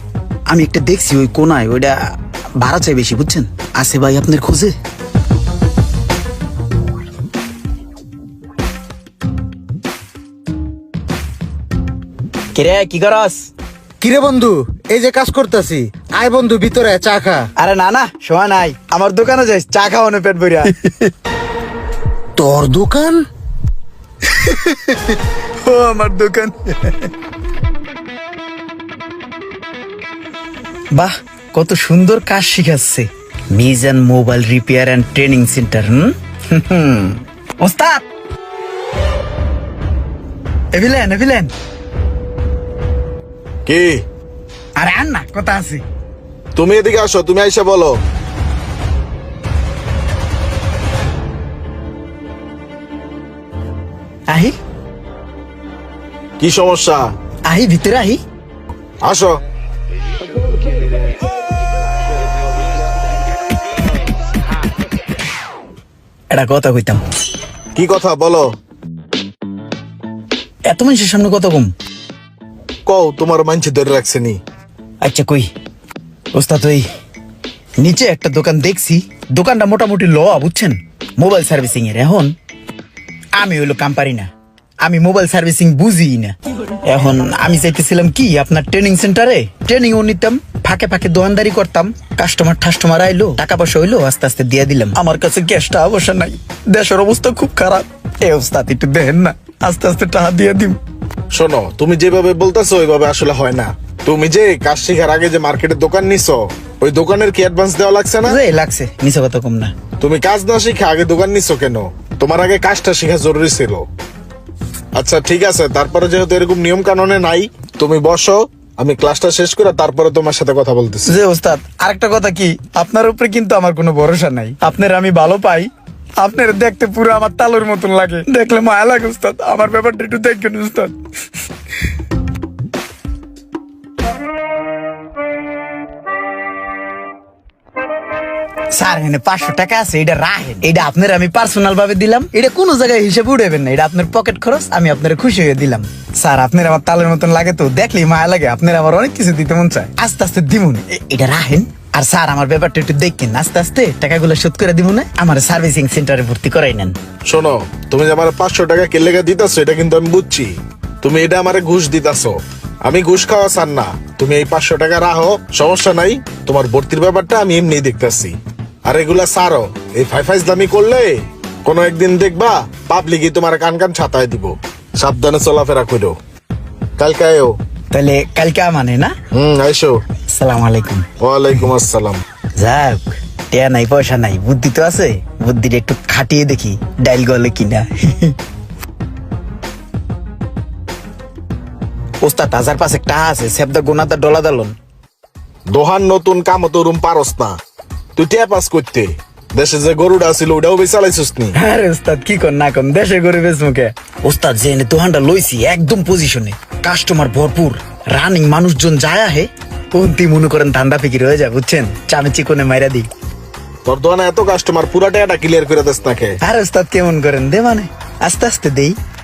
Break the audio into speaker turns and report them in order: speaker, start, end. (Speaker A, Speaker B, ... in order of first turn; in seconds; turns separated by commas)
Speaker A: 0.5-2.0, Speaker A: 2.6-4.7, Speaker A: 12.6-13.5, Speaker B: 14.0-17.5, Speaker A: 17.6-21.1, Speaker B: 22.4-23.3, Speaker A: 24.4-27.0, Speaker A: 30.9-38.1, Speaker A: 40.7-41.5, Speaker C: 43.7-44.0, Speaker A: 44.8-45.8, Speaker C: 46.6-48.0, Speaker C: 56.4-57.0, Speaker A: 57.5-58.2, Speaker C: 59.0-59.4, Speaker A: 66.3-67.0, Speaker C: 67.8-68.5, Speaker A: 70.7-71.7, Speaker C: 72.9-74.4, Speaker A: 75.0-75.5, Speaker A: 76.3-76.8, Speaker A: 77.8-82.3, Speaker A: 83.4-84.3, Speaker A: 84.8-100.8, Speaker C: 101.3-108.4, Speaker A: 108.3-109.7, Speaker C: 110.0-113.8, Speaker C: 115.0-121.2, Speaker A: 121.1-125.7, Speaker A: 126.2-131.0, Speaker A: 138.8-157.0, Speaker C: 157.3-176.2, Speaker C: 177.0-177.6, Speaker A: 177.9-179.1, Speaker C: 179.3-180.0, Speaker A: 180.3-181.1, Speaker C: 181.2-182.2, Speaker A: 182.6-188.4, Speaker A: 192.2-194.7, Speaker C: 195.7-197.6, Speaker C: 198.2-201.6, Speaker A: 201.5-213.1, Speaker C: 213.9-216.4, Speaker A: 216.4-219.0